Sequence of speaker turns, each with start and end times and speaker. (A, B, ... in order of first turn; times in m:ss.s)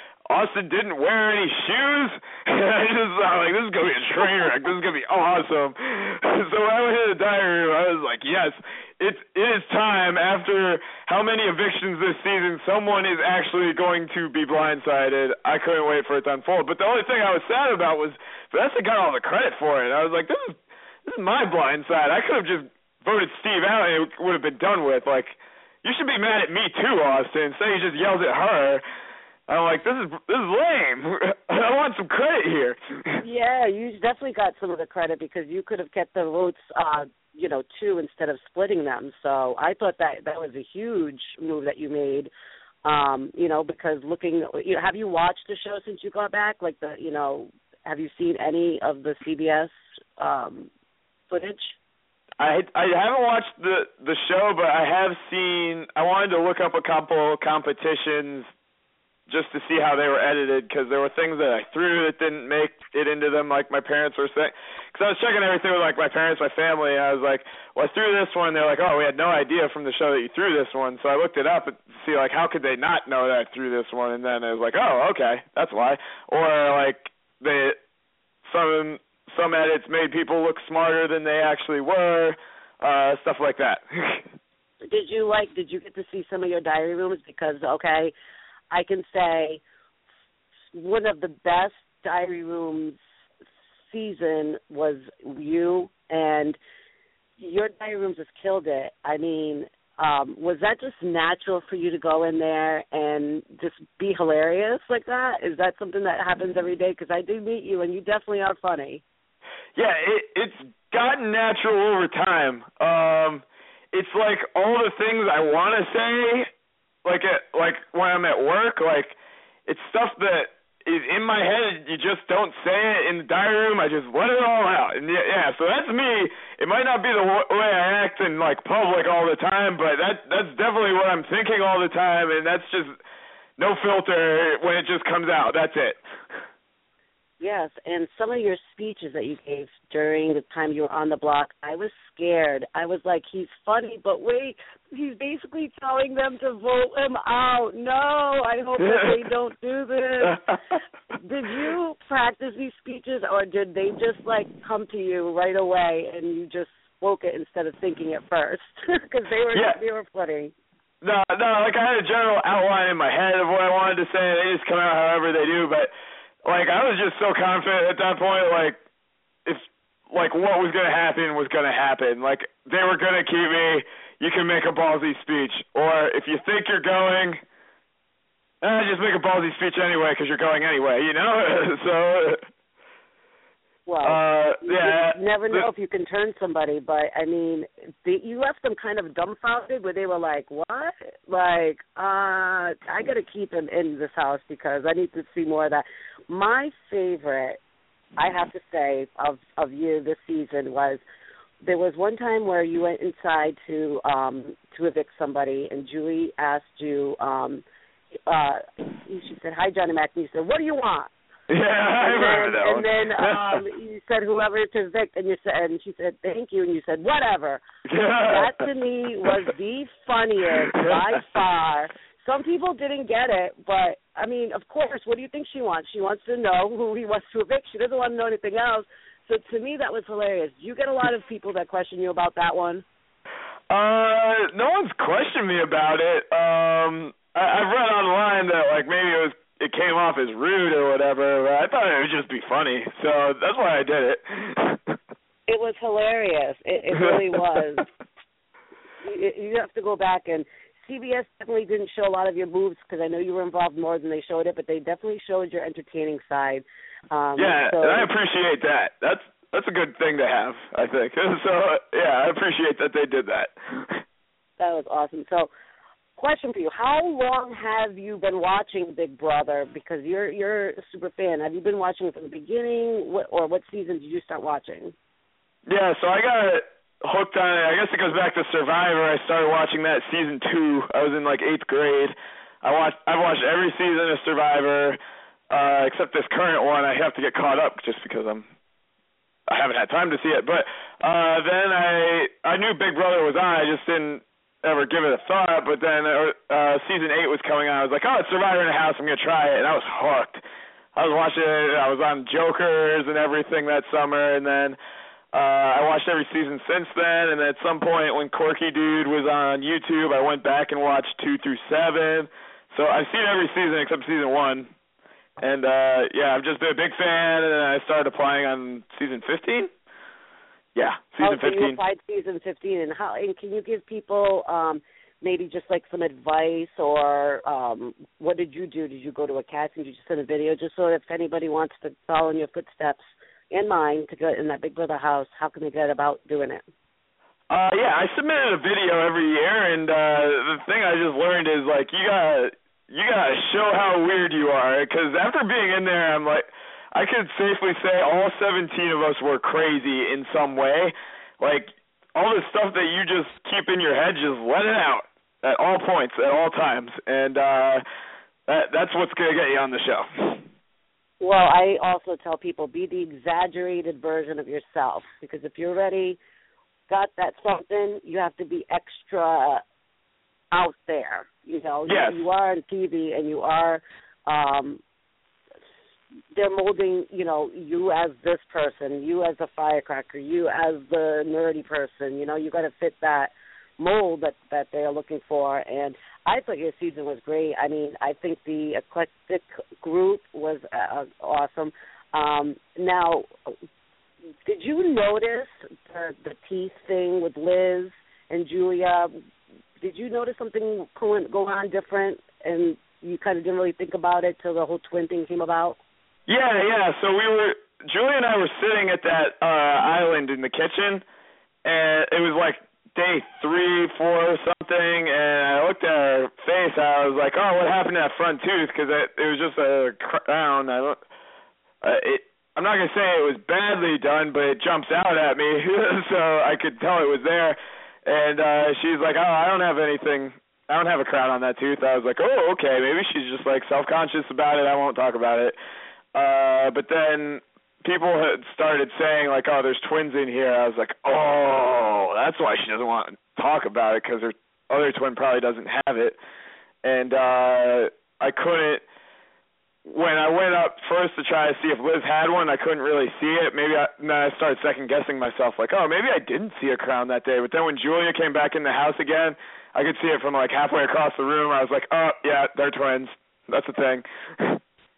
0:00.3-0:28.8 A
0:29.5-0:33.2 A
0:33.2-0:42.3 B
0:42.8-0:50.7 B
0:51.3-0:51.8 B
0:52.4-0:58.5 A
0:59.3-1:17.8 A
1:18.4-1:24.2 A
1:24.8-1:28.1 B
1:28.7-1:29.6 B
1:30.7-1:33.0 B
1:33.9-1:36.6 B
1:37.4-1:49.0 B
1:49.8-1:56.5 A
1:57.0-1:59.1 A
1:59.7-2:13.0 A
2:13.6-2:16.0 A
2:17.4-2:30.4 B
2:28.8-2:29.2 A
2:30.2-2:30.8 A
2:31.1-2:40.5 B
2:39.5-2:39.8 A
2:41.0-2:45.9 A
2:46.4-2:48.8 A
2:49.4-2:57.4 A
2:58.6-3:02.4 A
3:03.9-3:17.6 B
3:04.0-3:05.6 A
3:18.2-3:21.0 B
3:21.6-3:27.6 B
3:28.3-3:31.1 B
3:31.5-3:33.6 A
3:32.0-3:37.6 B
3:37.9-3:38.5 A
3:38.3-3:52.8 B
3:40.8-3:41.1 A
3:53.7-4:05.0 A
4:05.5-4:07.8 B
4:07.0-4:07.3 A
4:09.0-4:18.1 B
4:17.4-4:24.0 A
4:24.6-4:25.5 B
4:26.2-4:34.9 B
4:35.7-4:45.0 A
4:45.5-4:48.5 A
4:49.5-5:00.4 A
5:00.9-5:04.8 A
5:05.3-5:14.7 A
5:15.4-5:19.7 A
5:20.7-5:21.8 A
5:21.2-5:36.6 B
5:37.5-5:57.8 A
5:58.5-6:00.4 A
6:01.2-6:06.2 B
6:06.9-6:09.6 B
6:10.5-6:14.8 B
6:11.9-6:12.2 A
6:16.3-6:33.5 B
6:34.4-6:39.2 B
6:39.8-6:45.8 B
6:46.3-6:51.0 A
6:51.6-7:01.0 A
7:01.8-7:15.6 A
7:16.1-7:26.2 A
7:26.8-7:28.8 A
7:29.8-7:44.6 A